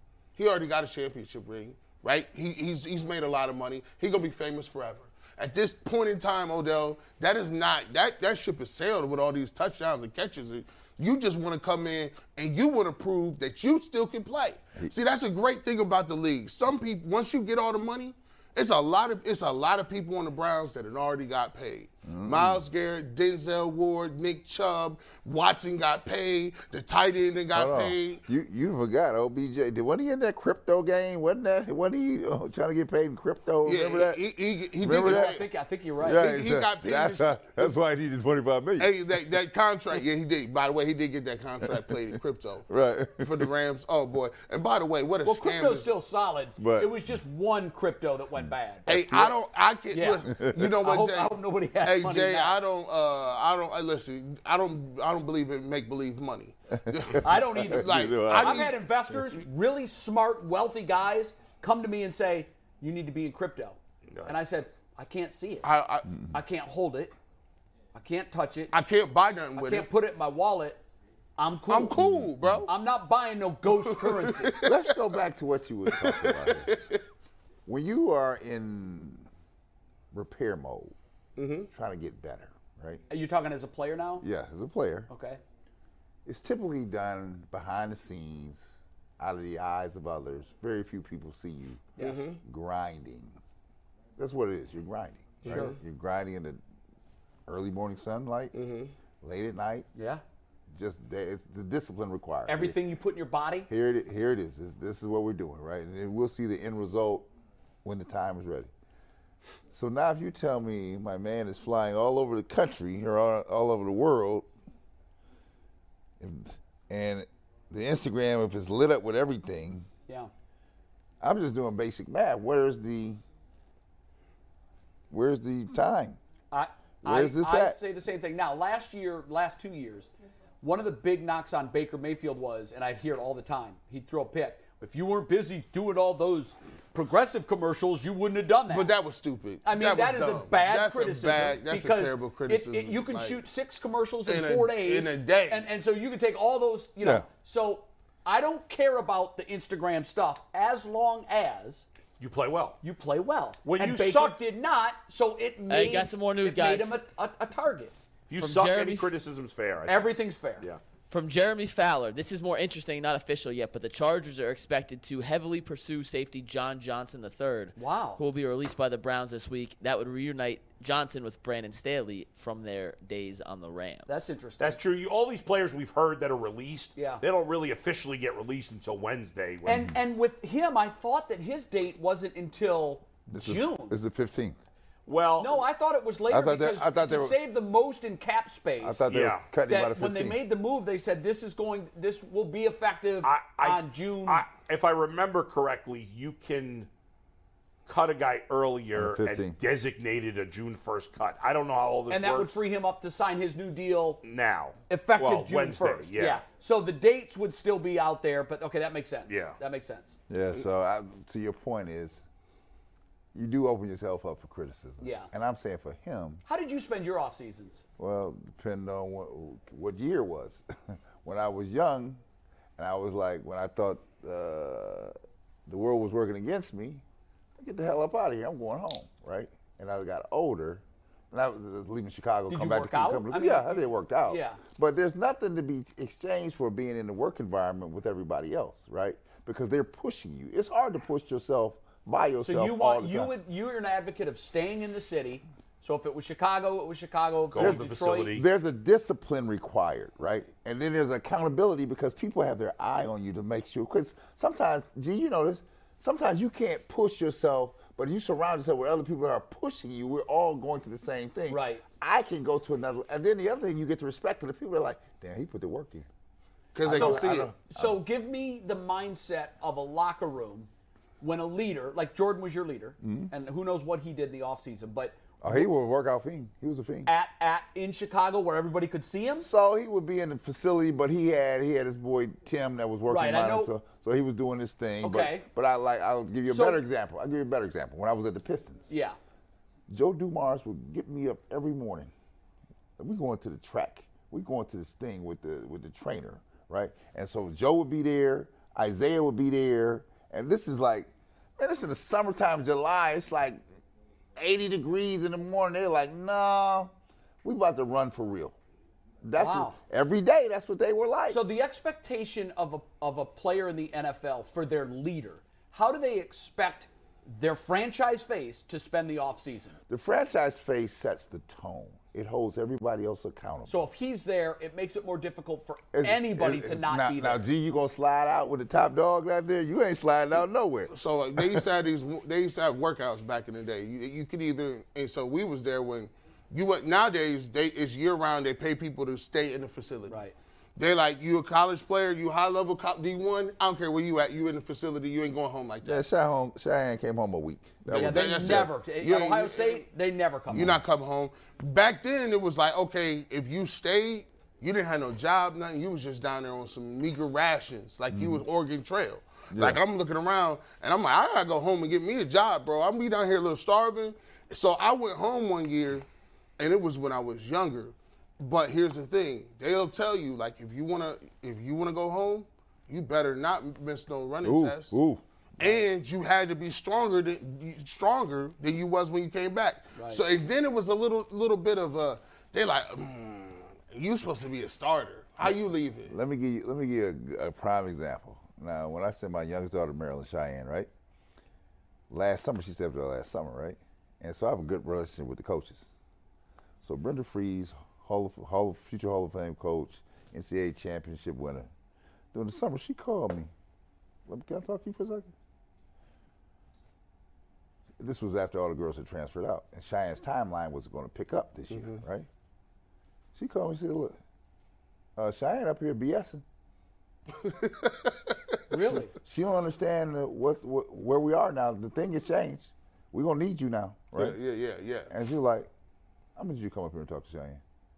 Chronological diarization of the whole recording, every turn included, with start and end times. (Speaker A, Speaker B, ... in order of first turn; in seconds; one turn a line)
Speaker A: 0.3-28.2
Speaker B: 22.0-22.6
Speaker B: 27.5-34.2
Speaker A: 33.6-35.5
Speaker B: 34.8-35.4
Speaker C: 34.9-36.2
Speaker B: 36.0-39.0
Speaker A: 36.0-37.8
Speaker A: 38.8-42.7
Speaker B: 42.7-43.5
Speaker A: 43.2-45.9
Speaker C: 45.2-48.9
Speaker B: 46.6-47.0
Speaker B: 48.9-49.6
Speaker A: 48.9-58.8
Speaker C: 49.9-52.6
Speaker B: 50.3-50.7
Speaker B: 56.9-58.7
Speaker C: 57.2-65.7
Speaker A: 65.6-66.1
Speaker C: 66.3-67.1
Speaker C: 67.9-68.7
Speaker A: 68.7-69.9
Speaker C: 69.5-70.8
Speaker C: 71.4-72.0
Speaker A: 71.7-72.7
Speaker B: 71.9-72.7
Speaker C: 72.7-74.5
Speaker A: 73.7-74.9
Speaker B: 74.6-76.7
Speaker A: 75.9-77.0
Speaker B: 77.7-79.2
Speaker B: 80.1-80.9
Speaker A: 81.4-81.7
Speaker B: 81.7-83.0
Speaker C: 83.1-84.2
Speaker B: 84.2-85.1
Speaker C: 85.1-85.4
Speaker B: 86.2-93.4
Speaker A: 92.0-92.4
Speaker B: 94.2-96.6
Speaker A: 95.4-95.7
Speaker C: 95.5-95.8
Speaker B: 97.5-98.5
Speaker A: 98.5-98.9
Speaker B: 99.2-99.9
Speaker C: 99.9-100.2
Speaker B: 100.7-102.8
Speaker C: 102.5-103.7
Speaker B: 103.7-107.3
Speaker B: 107.8-108.7
Speaker B: 109.7-114.5
Speaker B: 116.2-119.9
Speaker B: 121.2-123.2
Speaker B: 125.1-126.2
Speaker C: 126.5-130.1
Speaker B: 127.0-127.8
Speaker C: 130.6-138.9
Speaker A: 138.7-143.4
Speaker C: 139.6-151.8
Speaker A: 144.2-145.7
Speaker D: 152.2-152.8
Speaker C: 152.8-157.9
Speaker D: 153.6-154.4
Speaker E: 155.7-156.9
Speaker D: 158.3-160.8
Speaker E: 158.4-159.1
Speaker C: 159.8-160.6
Speaker E: 161.1-174.3
Speaker C: 167.8-168.2
Speaker C: 174.1-174.8
Speaker D: 174.6-179.9
Speaker C: 176.9-177.2
Speaker C: 179.6-183.9
Speaker B: 183.3-184.6
Speaker D: 185.1-185.6
Speaker C: 185.4-189.0
Speaker B: 186.3-187.4
Speaker B: 188.8-190.4
Speaker D: 189.1-189.4
Speaker C: 189.7-194.4
Speaker D: 193.2-196.9
Speaker D: 197.9-202.6
Speaker B: 198.9-199.6
Speaker C: 202.1-204.2
Speaker D: 204.2-206.4
Speaker C: 204.9-210.2
Speaker D: 209.3-209.6
Speaker B: 210.3-212.2
Speaker B: 213.3-216.4
Speaker C: 215.0-215.3
Speaker C: 216.4-217.8
Speaker B: 218.0-222.2
Speaker B: 222.8-225.1
Speaker B: 225.7-227.0
Speaker B: 227.6-243.3
Speaker C: 232.5-234.6
Speaker C: 242.4-248.3
Speaker D: 247.5-248.4
Speaker B: 247.6-266.1
Speaker C: 261.5-261.8
Speaker A: 266.7-267.5
Speaker B: 266.8-268.0
Speaker C: 266.9-270.7
Speaker C: 271.2-275.6
Speaker B: 273.0-273.3
Speaker B: 275.4-277.1
Speaker C: 277.1-279.5
Speaker B: 279.4-288.9
Speaker C: 283.1-283.7
Speaker C: 285.0-285.4
Speaker C: 286.5-286.8
Speaker C: 288.9-289.2
Speaker B: 289.9-292.1
Speaker B: 293.0-303.6
Speaker B: 304.4-308.5
Speaker B: 309.2-311.4
Speaker C: 309.4-309.8
Speaker C: 311.3-319.8
Speaker B: 319.9-323.8
Speaker C: 323.7-327.4
Speaker B: 325.9-331.6
Speaker A: 330.9-340.2
Speaker C: 340.1-340.3
Speaker A: 340.8-346.0
Speaker B: 345.8-348.7
Speaker A: 347.9-349.9
Speaker C: 347.9-350.8
Speaker A: 350.5-366.1
Speaker B: 358.1-358.4
Speaker B: 359.5-359.8
Speaker A: 366.6-375.0
Speaker B: 374.4-375.8
Speaker A: 375.6-386.1
Speaker C: 379.9-380.2
Speaker B: 385.4-390.9
Speaker B: 392.1-395.9
Speaker B: 396.8-401.7
Speaker B: 402.3-403.5
Speaker B: 404.3-405.3
Speaker B: 408.0-412.3
Speaker A: 411.7-412.0
Speaker B: 413.3-414.2
Speaker B: 415.1-416.4
Speaker A: 417.3-418.4
Speaker C: 418.7-419.1
Speaker B: 419.1-424.4
Speaker A: 424.1-425.1
Speaker B: 425.1-425.7
Speaker B: 426.4-427.6